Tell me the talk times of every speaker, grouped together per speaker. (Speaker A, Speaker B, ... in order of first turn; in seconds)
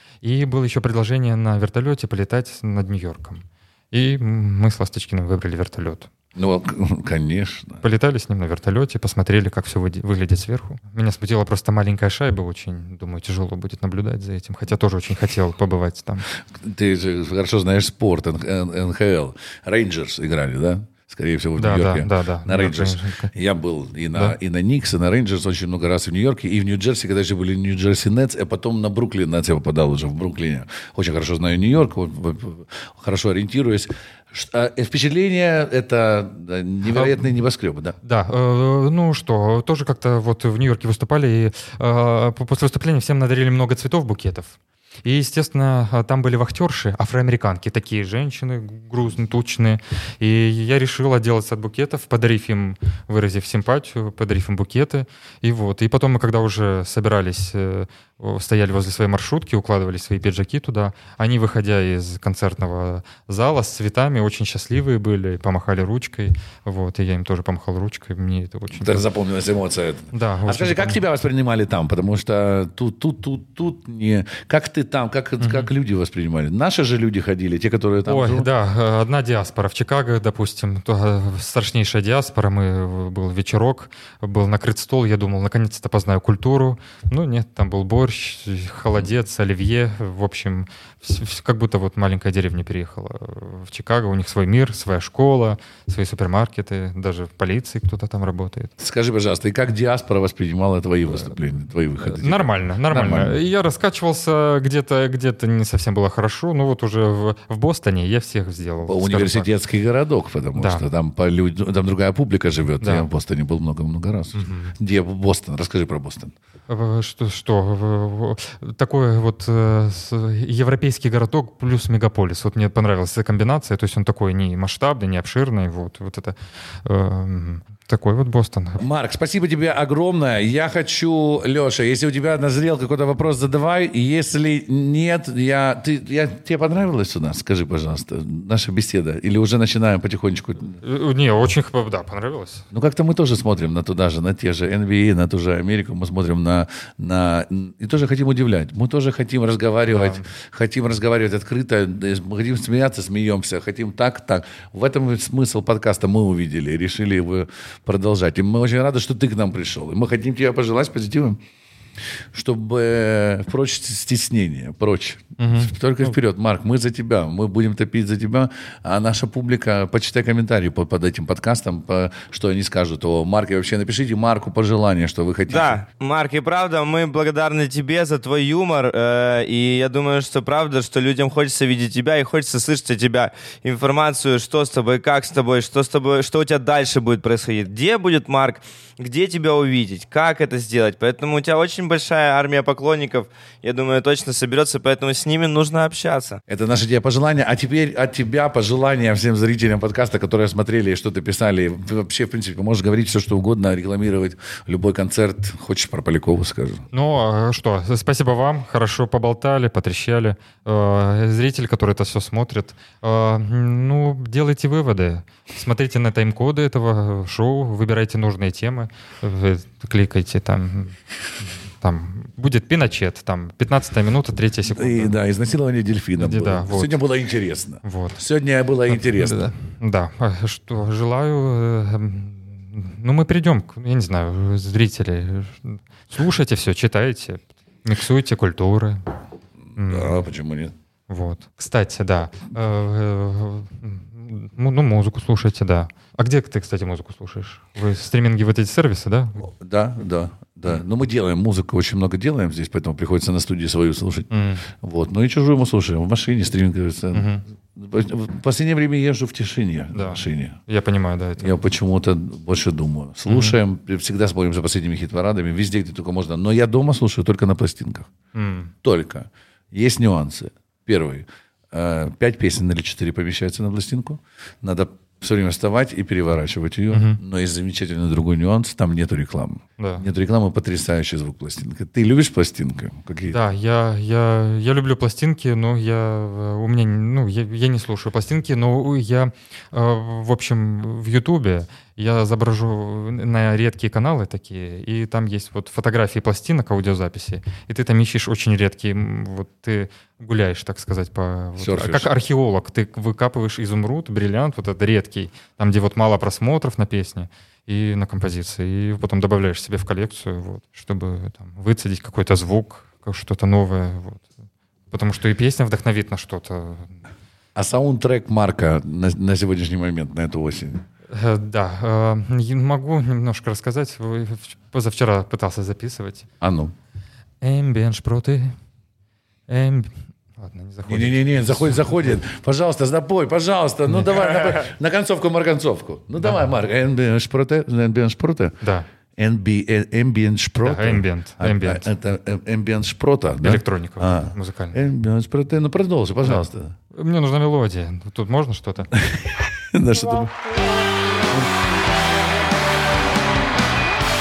Speaker A: 0.2-6.1, 7.8-16.3, 21.6-23.3, 36.9-37.2, 38.0-69.0, 70.1-71.0, 75.4-75.7, 78.1-98.7, 102.0-109.5, 110.6-110.8, 112.8-113.1, 114.3-114.8, 116.7-128.8, 140.8-142.7, 149.9-150.2, 165.4-165.7, 206.9-225.2, 226.2-227.0, 227.8-228.2, 228.9-239.1, 239.8-240.2, 241.1-249.4, 254.3-254.7, 257.1-257.4, 259.9-261.6, 263.3-263.6, 268.4-268.7, 276.9-277.2, 279.8-280.1, 283.3-314.3, 314.9-317.0, 321.1-326.3, 327.4-328.6, 329.5-332.2, 333.9-334.6, 338.6-338.9, 340.6-341.9, 343.4-344.8, 346.2-348.9
Speaker B: 6.4-7.8, 16.5-38.0, 68.7-78.5, 98.8-103.4, 108.8-116.3, 128.8-140.8, 142.7-161.4, 162.3-175.8, 196.5-206.9, 224.8-229.4, 239.7-240.7, 249.4-260.6, 261.4-268.1, 268.8-283.4, 301.6-302.1, 317.6-320.9, 326.4-326.7, 330.9-338.6, 339.2-346.8, 348.9-350.8
Speaker C: 175.5-196.4